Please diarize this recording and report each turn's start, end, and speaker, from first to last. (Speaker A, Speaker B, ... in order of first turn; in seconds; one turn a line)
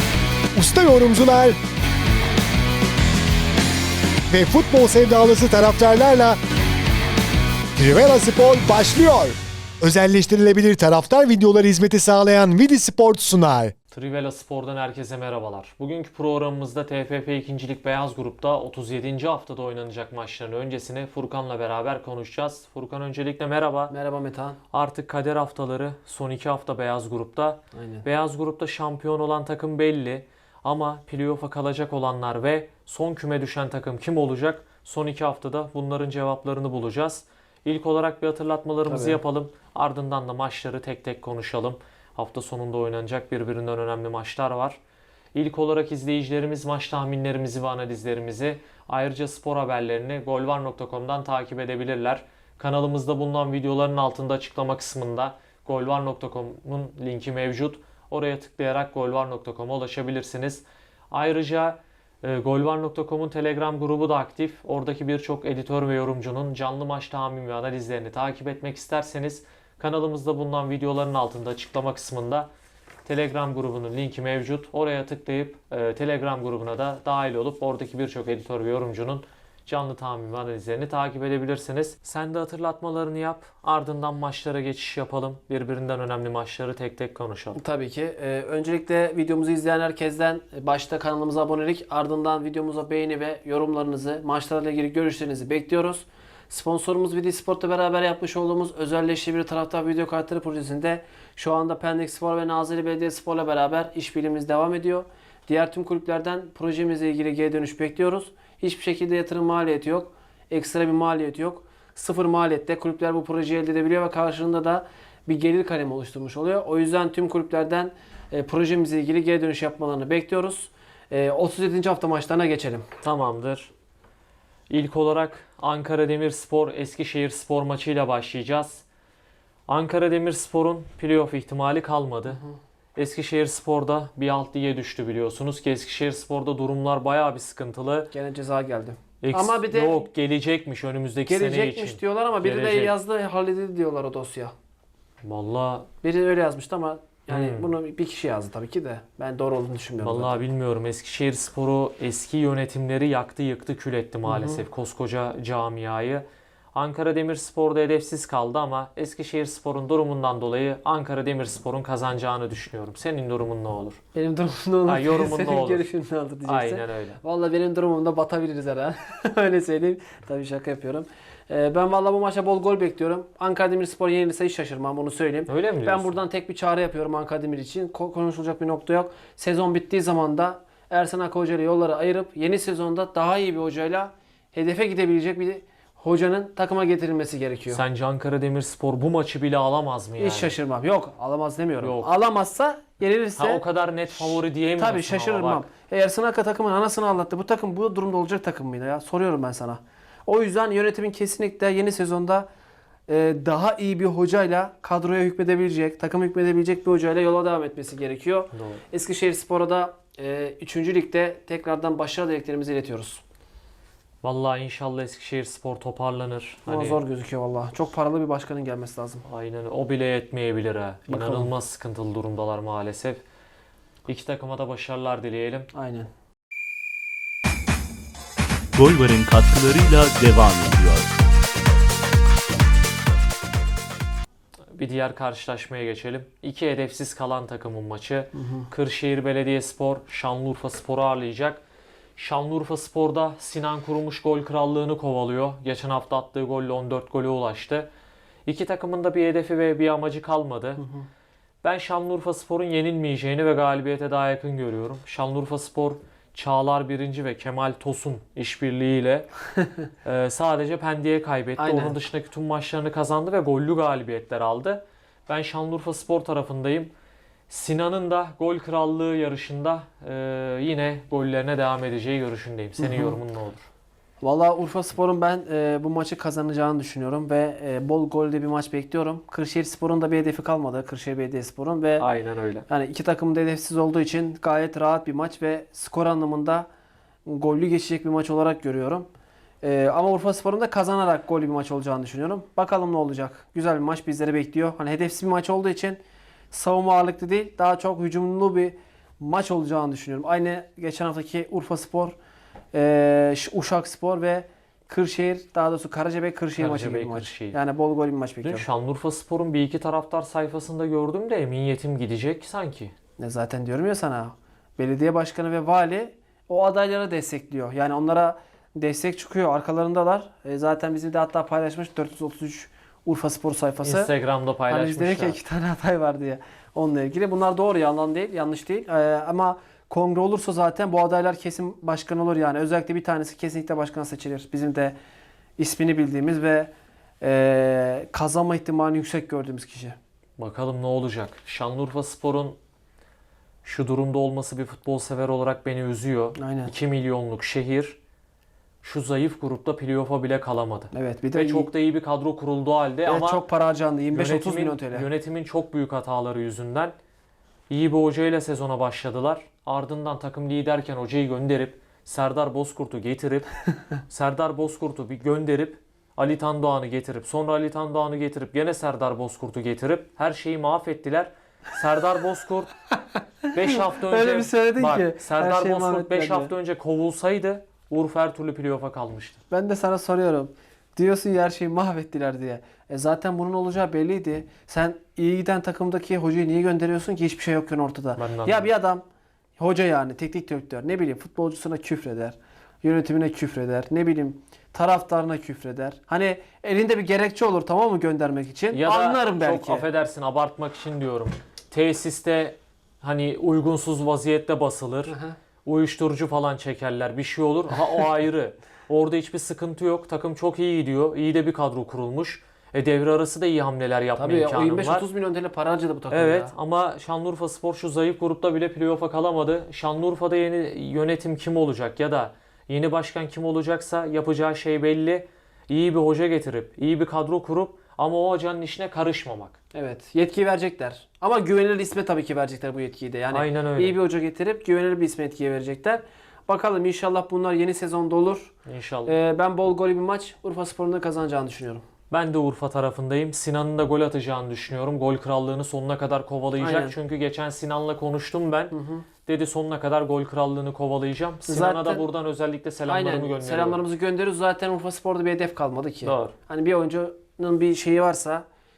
Speaker A: 0.5-1.6
Speaker A: 4.3-6.4
Speaker A: 7.8-13.7
Speaker B: 13.9-23.9
Speaker C: 23.9-24.6
Speaker B: 24.7-44.8
Speaker C: 27.7-28.1
Speaker C: 38.9-39.2
Speaker B: 45.3-72.5
Speaker B: 73.0-87.6
Speaker C: 87.5-122.9
Speaker B: 123.0-123.7
Speaker B: 124.7-128.8
Speaker B: 129.7-132.4
Speaker C: 132.3-132.5
Speaker B: 132.9-138.1
Speaker C: 138.1-140.0
Speaker B: 139.2-142.9
Speaker C: 141.3-144.5
Speaker B: 145.2-145.9
Speaker C: 146.0-150.4
Speaker B: 147.3-147.7
Speaker B: 150.0-164.0
Speaker C: 154.2-154.6
Speaker C: 164.1-187.8
Speaker B: 164.8-165.8
Speaker B: 166.4-167.2
Speaker B: 175.5-176.2
Speaker B: 187.7-190.5
Speaker C: 190.2-193.6
Speaker B: 191.8-192.1
Speaker B: 193.4-195.7
Speaker C: 194.1-202.5
Speaker C: 203.1-213.2
Speaker B: 208.5-208.8
Speaker B: 214.2-217.0
Speaker C: 216.7-219.2
Speaker B: 219.2-223.2
Speaker C: 221.1-221.5
Speaker B: 224.1-225.7
Speaker C: 225.7-226.1
Speaker D: 228.7-231.2
Speaker B: 234.7-241.6
Speaker C: 238.3-238.7
Speaker B: 242.2-247.9
Speaker B: 248.4-250.8
Speaker C: 250.8-251.1
Speaker B: 251.6-259.3
Speaker B: 260.0-266.9
Speaker C: 261.6-261.9
Speaker B: 267.5-273.7
Speaker C: 272.8-273.2
Speaker C: 274.2-282.1
Speaker B: 282.0-282.6
Speaker C: 282.7-286.7
Speaker C: 287.2-289.1
Speaker C: 289.6-296.0
Speaker C: 296.5-302.1
Speaker C: 302.7-308.6
Speaker B: 306.6-307.6
Speaker B: 308.4-312.9
Speaker C: 313.2-324.1
Speaker B: 323.8-325.4
Speaker C: 324.7-334.9
Speaker C: 335.6-340.0
Speaker B: 340.4-342.6
Speaker B: 343.6-348.0
Speaker C: 346.4-346.7
Speaker B: 348.8-353.4
Speaker C: 350.9-351.7
Speaker C: 353.0-355.1
Speaker B: 354.1-356.9
Speaker B: 357.7-363.5
Speaker B: 364.1-372.7
Speaker C: 373.5-376.5
Speaker B: 373.5-379.4
Speaker C: 379.5-389.0
Speaker B: 388.1-388.7
Speaker C: 389.6-399.9
Speaker B: 398.7-415.1
Speaker C: 405.1-405.4
Speaker C: 414.2-416.5
Speaker B: 416.1-429.6
Speaker C: 429.7-438.5
Speaker B: 433.3-434.0
Speaker B: 438.7-439.1
Speaker C: 439.1-441.8
Speaker B: 442.1-453.8
Speaker C: 446.6-447.0
Speaker C: 448.7-449.1
Speaker C: 451.4-452.0
Speaker C: 452.9-458.4
Speaker B: 456.0-456.3